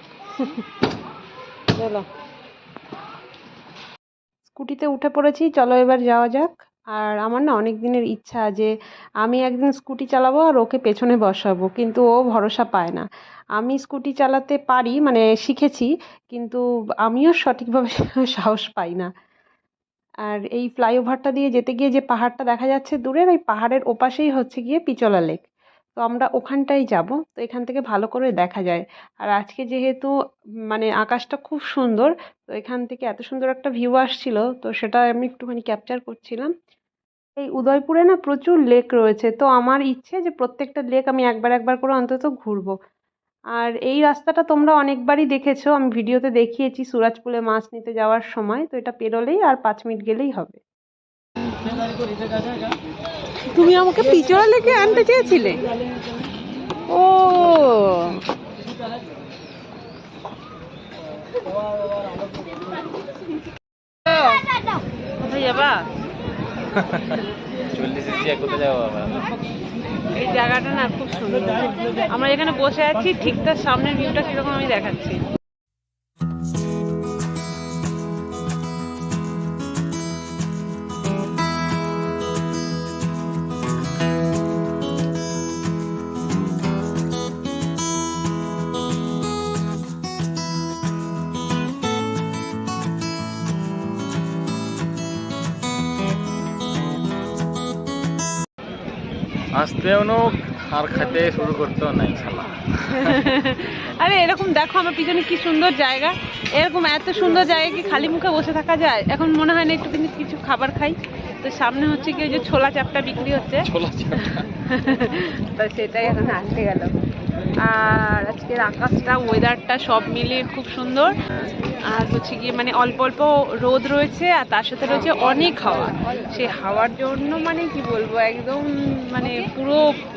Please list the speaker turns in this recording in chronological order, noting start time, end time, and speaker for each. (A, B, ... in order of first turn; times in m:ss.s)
0:00.4-0:00.7 A
0:01.7-0:02.1 A
0:04.6-0:19.1 A
0:20.3-0:25.4 A
0:26.0-0:30.1 A
0:30.7-0:36.5 A
0:37.4-0:42.7 A
0:43.6-0:50.6 A
0:53.5-0:55.6 A
0:56.9-0:58.2 A
1:04.1-1:04.4 A
1:05.2-1:05.9 A
1:06.8-1:07.2 B
1:07.7-1:09.2 B
1:10.2-1:15.2 A
1:39.5-1:43.3 B
1:42.9-1:57.0 A
1:53.6-1:54.5 B
1:57.6-2:09.9 A